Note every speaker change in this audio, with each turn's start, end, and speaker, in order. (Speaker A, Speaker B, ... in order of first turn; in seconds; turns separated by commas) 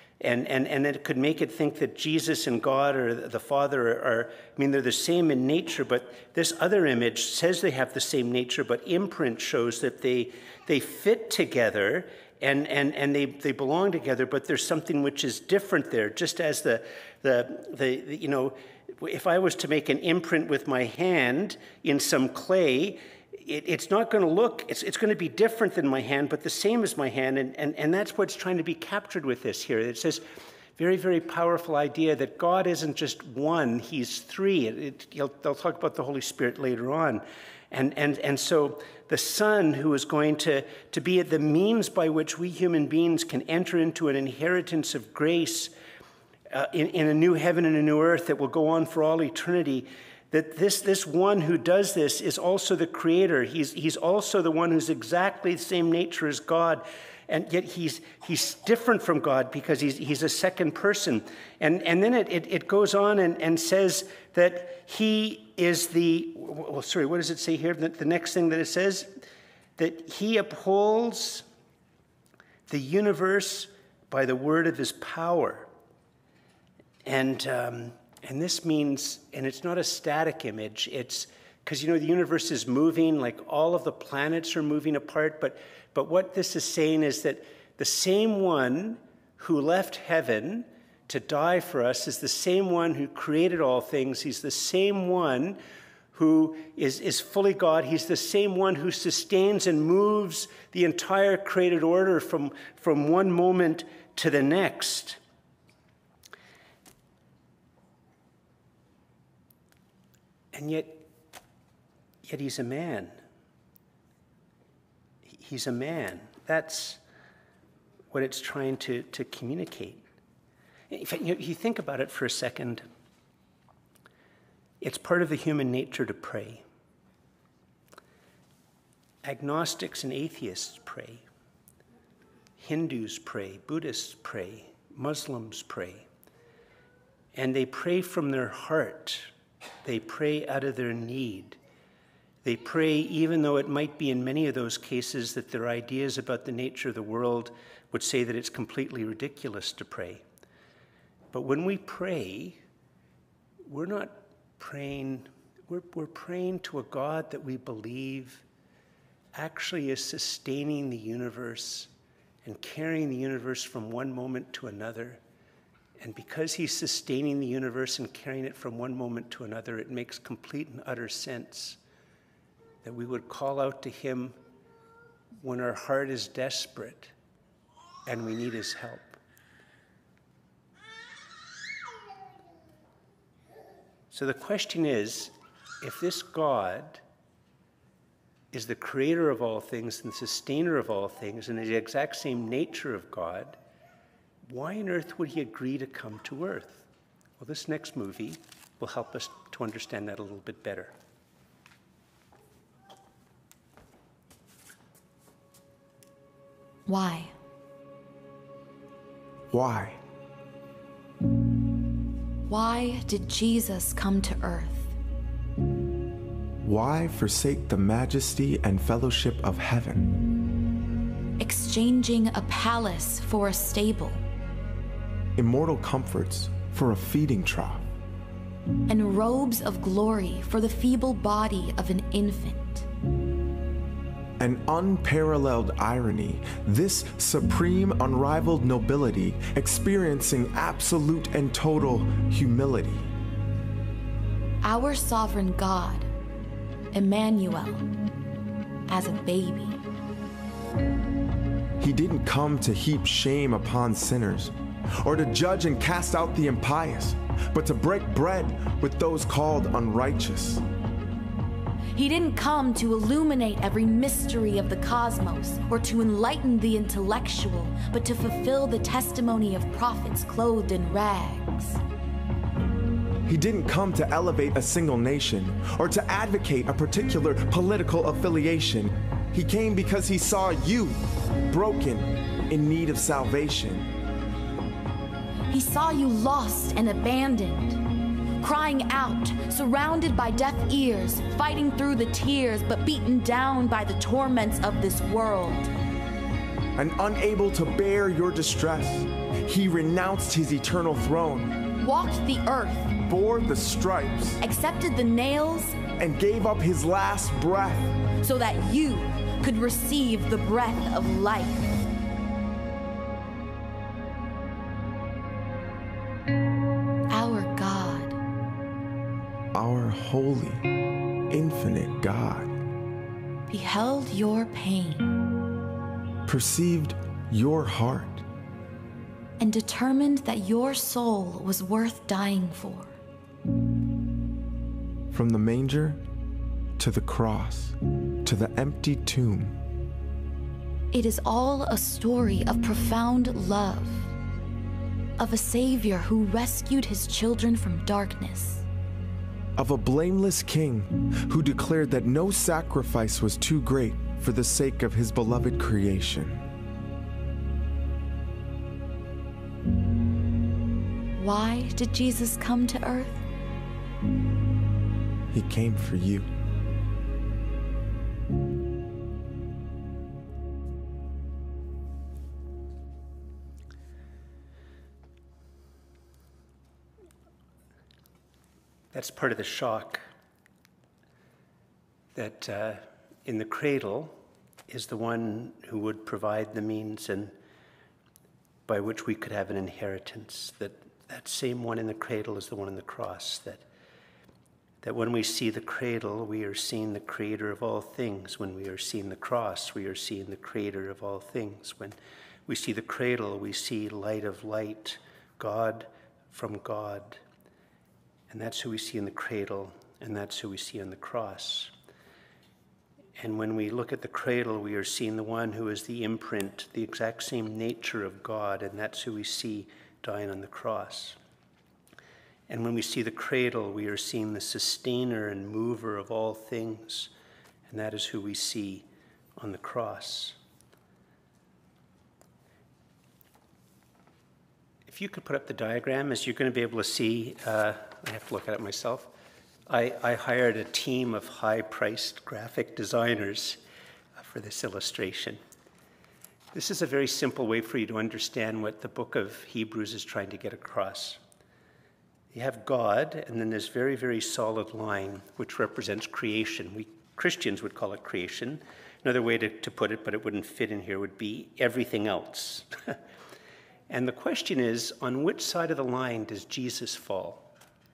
Speaker A: 0.2-30.2, Speaker A: 30.8-45.7, Speaker A: 46.5-69.2, Speaker A: 69.8-71.5, Speaker A: 72.7-75.7, Speaker A: 77.0-95.6, Speaker A: 96.1-105.2, Speaker A: 110.5-111.0, Speaker A: 112.2-113.2, Speaker A: 115.2-117.0, Speaker A: 118.1-120.0, Speaker A: 120.9-122.8, Speaker A: 124.8-126.6, Speaker A: 129.2-131.2, Speaker A: 132.6-136.1, Speaker A: 137.3-139.3, Speaker A: 139.8-141.6, Speaker A: 142.4-150.2, Speaker A: 151.3-152.6, Speaker A: 153.6-158.4, Speaker A: 159.3-161.9, Speaker A: 162.4-165.2, Speaker A: 166.0-171.8, Speaker A: 172.8-174.4, Speaker A: 175.4-177.1, Speaker A: 178.1-179.2, Speaker A: 184.1-187.0, Speaker A: 188.5-193.6, Speaker A: 194.4-196.8, Speaker A: 197.4-200.9, Speaker B: 206.9-207.3, Speaker C: 209.5-210.0, Speaker B: 212.5-214.9, Speaker C: 216.6-220.1, Speaker B: 221.4-224.2, Speaker C: 225.3-227.8, Speaker B: 228.9-232.9, Speaker C: 234.4-243.1, Speaker B: 244.6-246.1, Speaker B: 246.9-247.8, Speaker B: 248.9-249.8, Speaker C: 251.8-260.6, Speaker B: 261.9-271.8, Speaker C: 273.2-283.9, Speaker B: 285.5-287.8, Speaker B: 288.4-295.7, Speaker C: 296.8-301.6, Speaker B: 301.8-303.0, Speaker C: 303.0-304.4, Speaker B: 304.4-305.8, Speaker C: 306.0-308.1, Speaker B: 308.1-311.8, Speaker B: 317.1-318.2, Speaker C: 319.5-320.6, Speaker C: 321.3-322.6, Speaker B: 323.5-325.2, Speaker C: 326.2-328.2, Speaker B: 329.4-332.9, Speaker C: 335.1-336.0, Speaker C: 336.8-339.5, Speaker B: 340.9-344.1, Speaker B: 345.2-348.6, Speaker C: 349.6-356.4, Speaker B: 361.2-363.2, Speaker C: 365.3-366.3, Speaker A: 378.9-380.0, Speaker A: 382.1-387.3, Speaker A: 388.7-393.6, Speaker A: 394.8-407.2, Speaker A: 408.3-411.7, Speaker A: 413.2-421.2, Speaker A: 422.5-427.1, Speaker A: 427.7-428.9, Speaker A: 429.4-430.4, Speaker A: 434.9-439.1, Speaker A: 439.7-443.6, Speaker A: 444.2-445.4, Speaker A: 446.5-451.2, Speaker A: 452.3-462.9, Speaker A: 463.9-467.5